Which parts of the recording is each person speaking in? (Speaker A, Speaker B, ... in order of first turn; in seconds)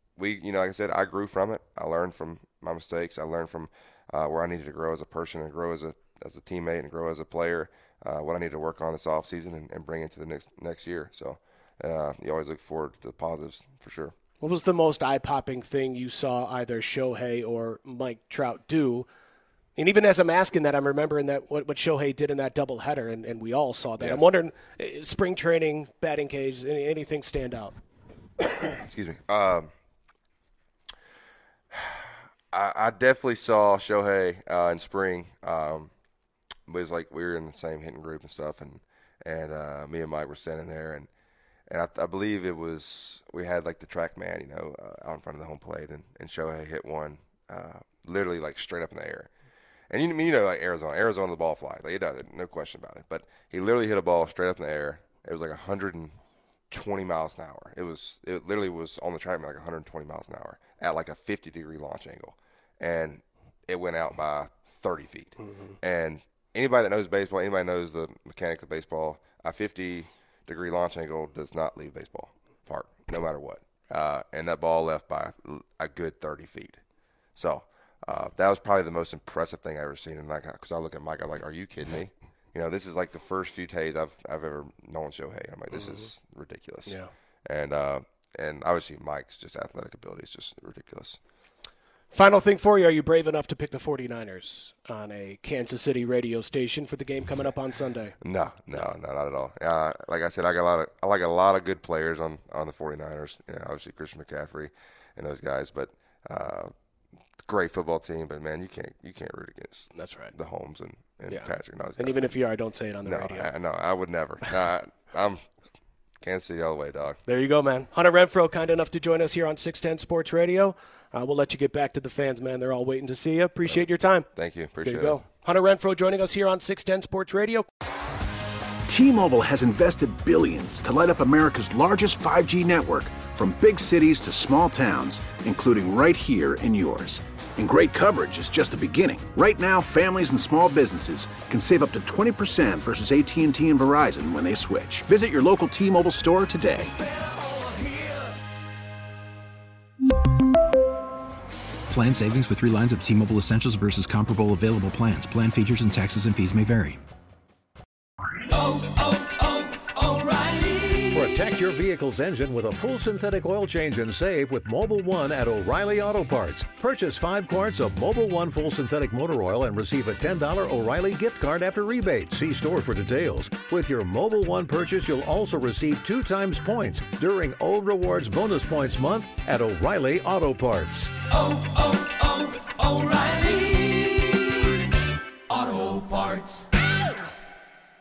Speaker A: 0.2-14.1, 28.7-29.7, 31.7-35.9, 36.7-41.1, 41.7-49.3, 49.9-56.1, 56.7-76.8, 77.3-91.2, 98.2-106.7, 107.4-112.3, 113.0-115.4, 116.2-117.2, 123.7-125.2
Speaker B: 14.4-19.1, 19.8-27.8, 85.7-86.1, 86.8-87.1, 92.1-98.2, 109.9-110.3, 111.3-113.5, 117.2-124.3, 124.8-127.7
Speaker C: 128.9-146.9
Speaker D: 151.9-157.0
Speaker E: 160.5-181.1